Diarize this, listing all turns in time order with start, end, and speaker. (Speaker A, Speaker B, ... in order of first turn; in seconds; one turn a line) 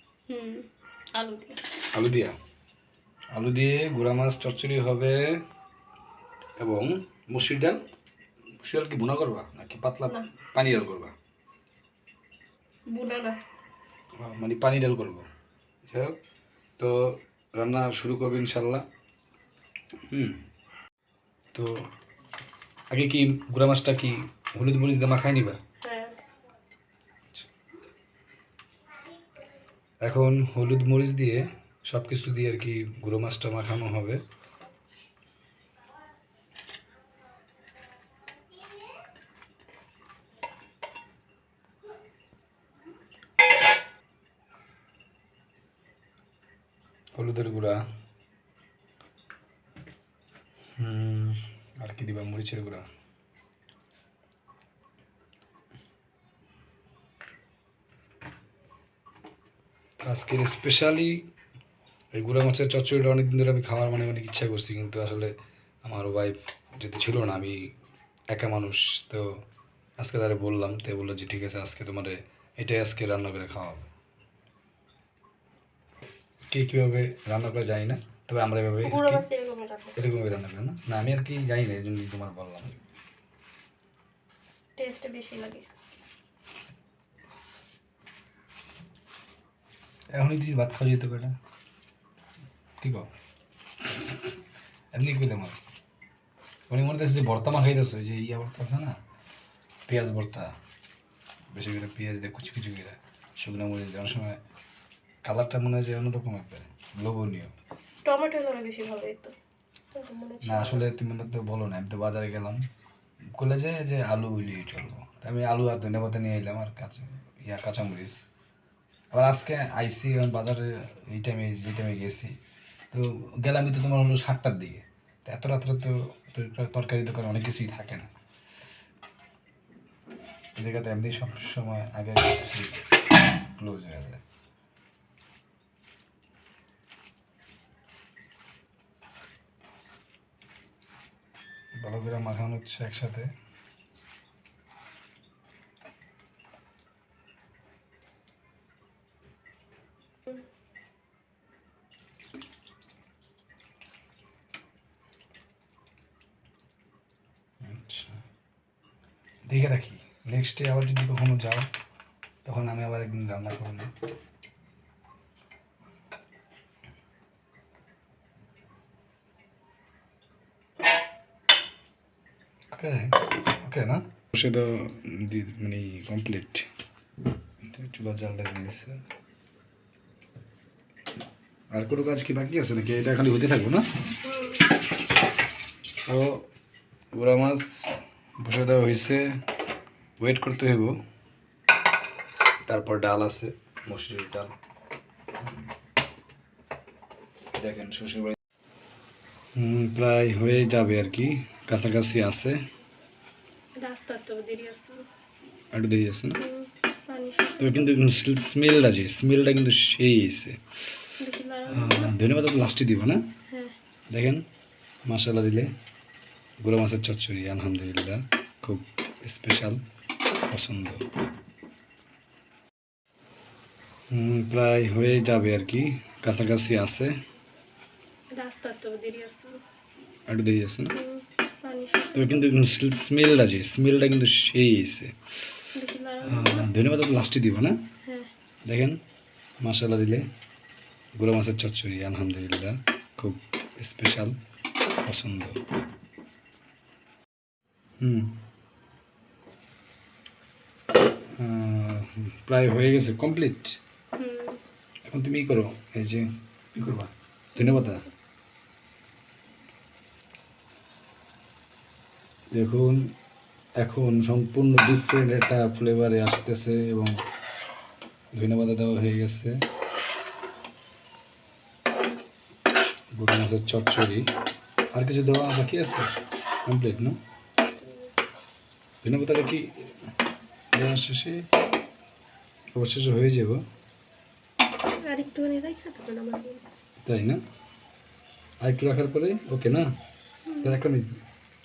Speaker A: 0.3-1.6
Speaker B: 1.9-2.4
Speaker B: 3.3-5.4
Speaker B: 6.6-7.8
Speaker B: 8.6-11.2
Speaker A: 12.9-13.4
Speaker B: 14.2-15.3
Speaker B: 15.9-16.2
Speaker B: 16.8-18.8
Speaker B: 20.1-20.4
Speaker B: 22.9-25.6
Speaker A: 25.8-26.2
Speaker B: 30.0-34.2
Speaker B: 47.1-47.8
Speaker B: 50.8-52.9
Speaker B: 60.0-61.3
Speaker B: 62.1-67.7
Speaker B: 68.3-69.4
Speaker B: 70.0-73.9
Speaker B: 76.5-79.2
Speaker A: 78.8-80.0
Speaker B: 80.0-82.8
Speaker A: 84.8-85.7
Speaker B: 90.1-91.4
Speaker B: 92.8-93.1
Speaker B: 94.9-95.6
Speaker B: 96.7-99.0
Speaker B: 99.9-100.5
Speaker B: 101.5-104.4
Speaker B: 105.2-107.5
Speaker A: 108.0-109.3
Speaker A: 109.9-110.9
Speaker B: 110.4-112.6
Speaker B: 113.4-118.2
Speaker B: 119.1-122.4
Speaker B: 122.9-128.1
Speaker B: 130.6-132.9
Speaker B: 133.4-134.2
Speaker B: 141.8-143.3
Speaker B: 157.6-158.2
Speaker B: 159.5-161.7
Speaker B: 162.4-163.9
Speaker B: 172.7-176.7
Speaker B: 177.6-179.0
Speaker B: 181.7-183.9
Speaker A: 184.2-184.6
Speaker B: 186.1-186.5
Speaker B: 187.1-189.4
Speaker B: 190.2-191.0
Speaker B: 192.7-194.5
Speaker B: 197.5-198.4
Speaker B: 199.6-202.6
Speaker A: 203.8-205.1
Speaker B: 205.7-206.4
Speaker A: 206.4-207.8
Speaker B: 207.6-210.6
Speaker A: 211.2-212.2
Speaker B: 211.7-213.3
Speaker A: 213.5-213.8
Speaker B: 214.1-214.4
Speaker B: 215.1-215.7
Speaker B: 216.6-219.8
Speaker B: 220.5-221.1
Speaker B: 224.1-227.2
Speaker A: 228.3-229.6
Speaker B: 230.3-231.0
Speaker A: 230.9-232.4
Speaker B: 232.1-235.2
Speaker A: 235.8-236.7
Speaker B: 236.2-237.9
Speaker A: 238.1-238.3
Speaker B: 238.7-239.0
Speaker B: 239.6-240.3
Speaker B: 241.2-244.4
Speaker B: 245.0-245.6
Speaker B: 248.0-248.4
Speaker B: 251.4-253.8
Speaker A: 254.2-254.6
Speaker B: 255.1-258.1
Speaker B: 262.5-263.1
Speaker B: 263.8-267.2
Speaker B: 268.3-269.6
Speaker B: 273.2-274.3
Speaker B: 274.9-276.1
Speaker B: 276.7-277.2
Speaker B: 279.0-279.9
Speaker B: 280.7-281.5
Speaker B: 282.7-283.6
Speaker A: 285.1-286.6
Speaker B: 287.0-287.4
Speaker B: 288.6-289.9
Speaker A: 290.5-290.8
Speaker B: 290.6-291.1